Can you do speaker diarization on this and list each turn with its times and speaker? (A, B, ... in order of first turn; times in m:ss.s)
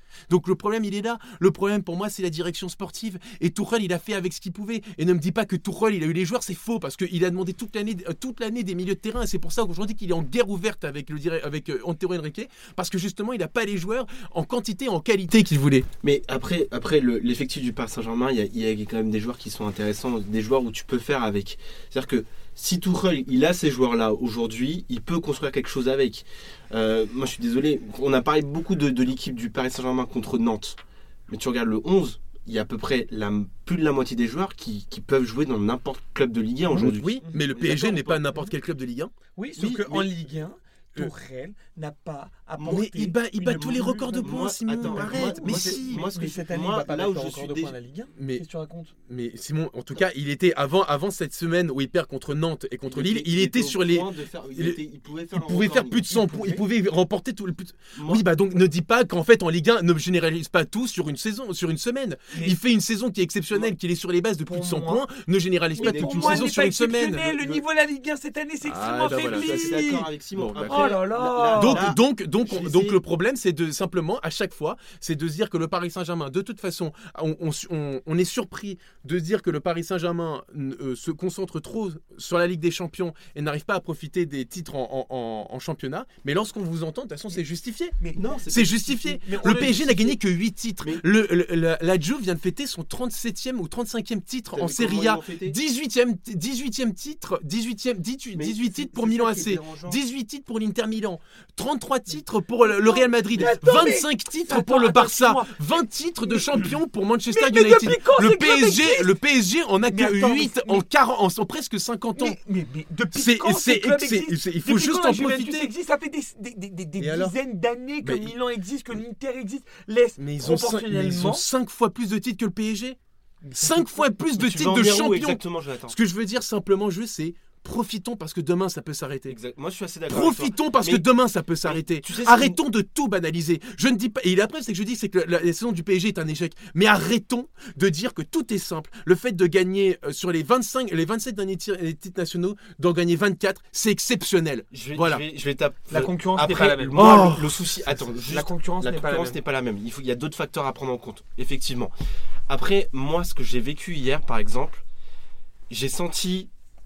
0:00.3-0:15.9 A
0:16.0-0:38.2 B
0:36.7-0:39.1 A
0:39.4-0:48.9 C
0:39.6-0:40.1 B
0:42.6-0:42.8 B
0:42.6-0:46.1 A
0:43.6-0:47.8 B
0:48.2-0:48.4 A
0:49.0-0:54.8 A
0:52.9-0:56.0 B
0:55.3-1:07.4 A
0:56.1-0:56.6 C
0:57.9-0:58.2 B
1:04.4-1:05.0 C
1:05.8-1:10.1 C
1:05.8-1:06.5 B
1:08.6-1:09.8 A
1:09.1-1:13.0 B
1:10.4-1:10.9 A
1:10.6-1:11.9 C
1:11.5-1:28.0 A
1:28.1-1:30.2 B
1:28.5-1:52.4 A
1:29.2-1:30.0 C
1:34.5-1:35.6 B
1:38.3-1:40.0 B
1:42.6-1:46.7 C
1:47.3-1:49.1 C
1:49.9-1:50.8 C
1:52.1-2:01.4 C
1:53.1-1:55.7 A
1:57.0-1:57.4 A
1:58.0-1:58.3 A
2:00.2-2:03.0 A
2:03.4-2:04.0 C
2:03.5-2:09.4 A
2:04.2-2:06.0 B
2:09.3-2:11.0 B
2:10.1-2:25.2 A
2:11.6-2:12.6 B
2:24.7-2:31.9 B
2:25.9-2:27.5 C
2:27.0-2:27.5 A
2:28.3-2:29.4 C
2:32.5-2:34.8 B
2:35.7-2:36.5 B